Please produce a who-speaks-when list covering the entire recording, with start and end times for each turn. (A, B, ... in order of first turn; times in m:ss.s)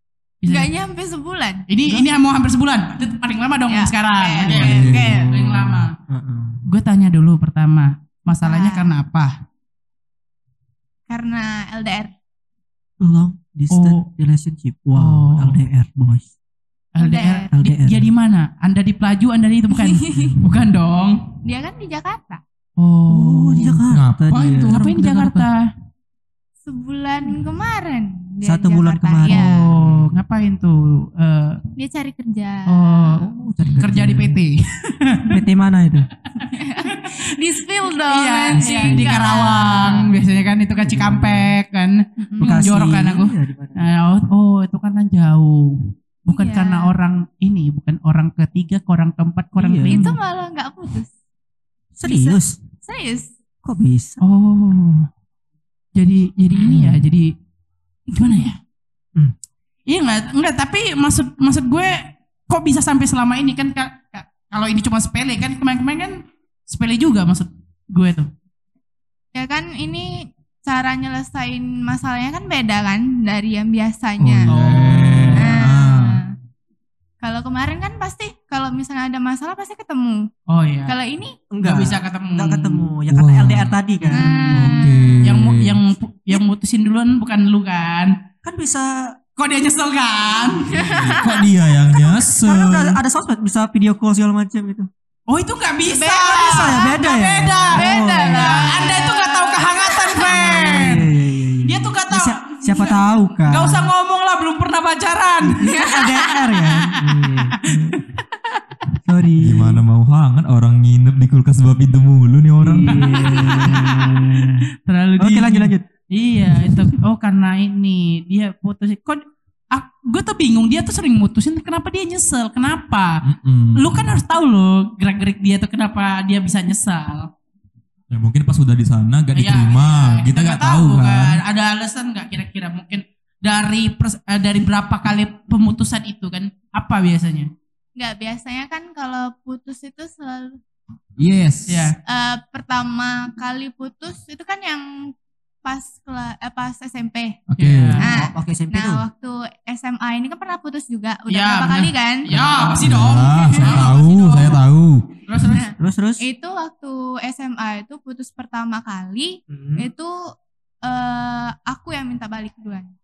0:00.4-0:00.7 A
0:00.5-0:01.7 B
0:01.7-0:05.9 A
0:03.7-0:05.3 B
0:04.5-0:05.2 C
0:04.7-0:06.6 D
0:06.7-0:09.3 A
0:08.4-0:08.9 B
0:11.1-0:12.1 B
0:13.0-0:16.3 D
0:13.7-0:14.1 A
0:15.0-0:15.6 A
0:17.0-0:21.2 A
0:17.0-0:17.5 B
0:17.5-0:18.1 D
0:19.7-0:20.4 B
0:21.4-0:22.4 B
0:22.8-0:25.7 A
0:23.1-0:25.5 D
0:23.9-0:24.3 C
0:26.7-0:29.7 B
0:28.4-0:30.0 D
0:29.3-0:31.6 A
0:31.8-0:33.2 B
0:32.7-0:33.3 A
0:33.2-0:34.4 D
0:33.8-0:35.4 A
0:35.3-0:36.1 D
0:36.5-0:40.1 B
0:36.8-0:37.2 A
0:38.1-0:50.2 A
0:38.5-0:40.1 D
0:40.8-0:41.5 D
0:42.2-0:42.8 B
0:42.4-0:43.8 D
0:46.3-0:46.9 B
0:49.6-0:50.2 D
0:49.9-0:51.1 B
0:52.0-0:52.6 D
0:52.0-0:53.3 B
0:53.6-0:54.2 D
0:54.2-0:55.1 A
0:56.0-0:57.3 A
0:56.6-0:57.1 D
0:58.1-0:58.6 A
0:59.9-1:08.3 A
1:09.4-1:14.5 B
1:14.2-1:16.2 C
1:14.5-1:15.6 A
1:15.3-1:16.3 B
1:17.2-1:20.3 B
1:20.5-1:20.9 A
1:20.9-1:21.4 B
1:21.5-1:24.9 D
1:21.6-1:22.9 A
1:23.1-1:23.7 C
1:24.0-1:24.4 A
1:24.1-1:25.2 B
1:24.5-1:25.8 C
1:25.2-1:28.2 A
1:28.4-1:29.2 D
1:29.4-1:31.0 A
1:30.8-1:31.2 B
1:30.8-1:33.0 C
1:31.9-1:34.9 D
1:35.3-1:41.1 A
1:35.9-1:36.8 B
1:36.3-1:39.0 D
1:37.7-1:40.6 B
1:40.3-1:43.9 D
1:41.6-1:46.0 A
1:45.4-1:48.0 D
1:45.6-1:46.3 B
1:46.6-1:48.2 A
1:49.0-1:49.8 D
1:49.4-1:53.4 C
1:52.6-1:54.7 D
1:52.8-2:07.3 A
1:55.2-1:55.8 D
1:56.5-1:56.9 D
2:03.2-2:04.1 C
2:08.1-2:11.4 C
2:09.4-2:17.5 A
2:18.0-2:20.6 B
2:21.2-2:21.9 C
2:21.7-2:22.0 A
2:22.0-2:25.1 B
2:25.6-2:27.4 B
2:27.5-2:28.0 C
2:27.6-2:28.1 A
2:28.0-2:29.0 D
2:28.0-2:32.3 B
2:31.3-2:34.6 A
2:32.3-2:35.1 C
2:33.2-2:33.9 B
2:35.3-2:35.6 A
2:35.5-2:40.3 B
2:35.8-2:36.2 D
2:39.5-2:39.8 D
2:40.8-2:42.9 B